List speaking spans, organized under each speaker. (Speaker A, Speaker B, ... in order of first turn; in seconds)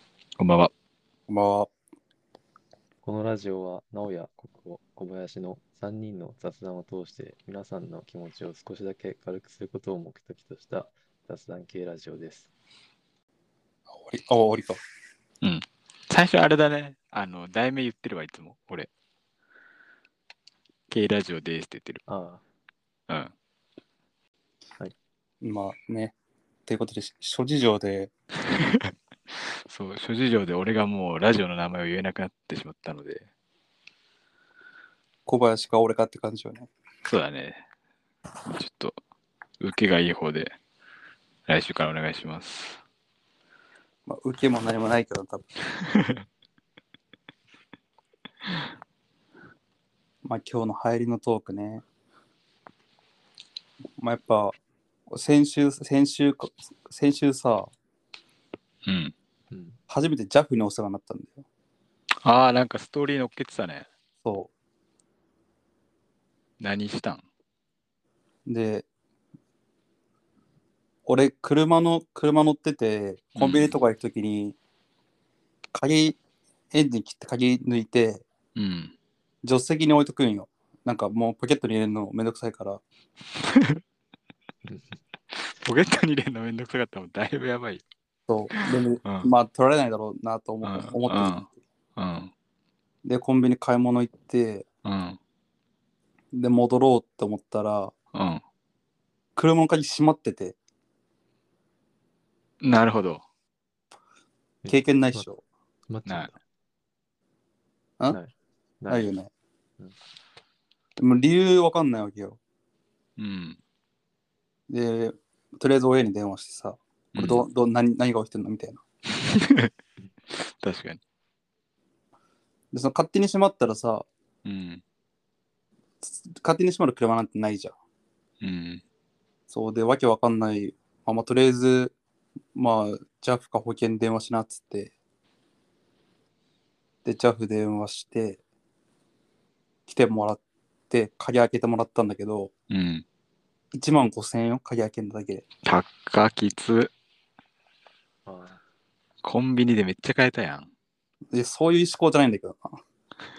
Speaker A: 0.4-0.7, 15.4-18.9, 20.9-22.0, 28.5-28.9, 29.5-33.3, 37.0-37.6, 38.5-39.0, 39.6-40.5, 41.5-42.8, 45.8-46.2, 58.9-59.1, 62.2-63.9, 66.6-67.2, 73.3-73.7, 78.5-78.9, 83.4-83.8, 85.5-87.8, 88.5-89.3, 90.6-92.3, 94.8-95.2, 98.1-98.4, 102.6-103.2, 113.2-113.6, 117.1-117.5, 119.1-119.7, 120.3-121.0, 124.4-124.8, 128.4-128.8, 142.7-143.0, 145.6-146.9, 149.2-150.7
Speaker B: 1.3-1.7, 13.9-14.8, 25.4-26.1, 26.7-28.1, 35.3-36.7, 44.1-45.5, 50.2-51.8, 54.0-54.6, 55.1-57.7, 59.9-61.5, 64.2-64.5, 68.5-68.8, 71.0-74.6, 75.7-76.2, 76.7-78.2, 79.4-82.8, 88.3-91.5, 93.0-94.7, 96.3-97.9, 99.3-100.5, 104.7-105.4, 108.9-109.3, 111.0-112.4, 114.7-118.8, 122.7-124.1, 126.0-127.8, 129.5-131.9, 132.5-134.9, 137.0-138.4, 139.9-142.5, 143.7-145.4, 151.3-152.8
Speaker C: 3.0-12.5, 22.1-22.4, 59.5-59.8, 84.6-85.0, 104.6-105.3, 105.9-106.4, 108.1-109.1, 148.2-148.6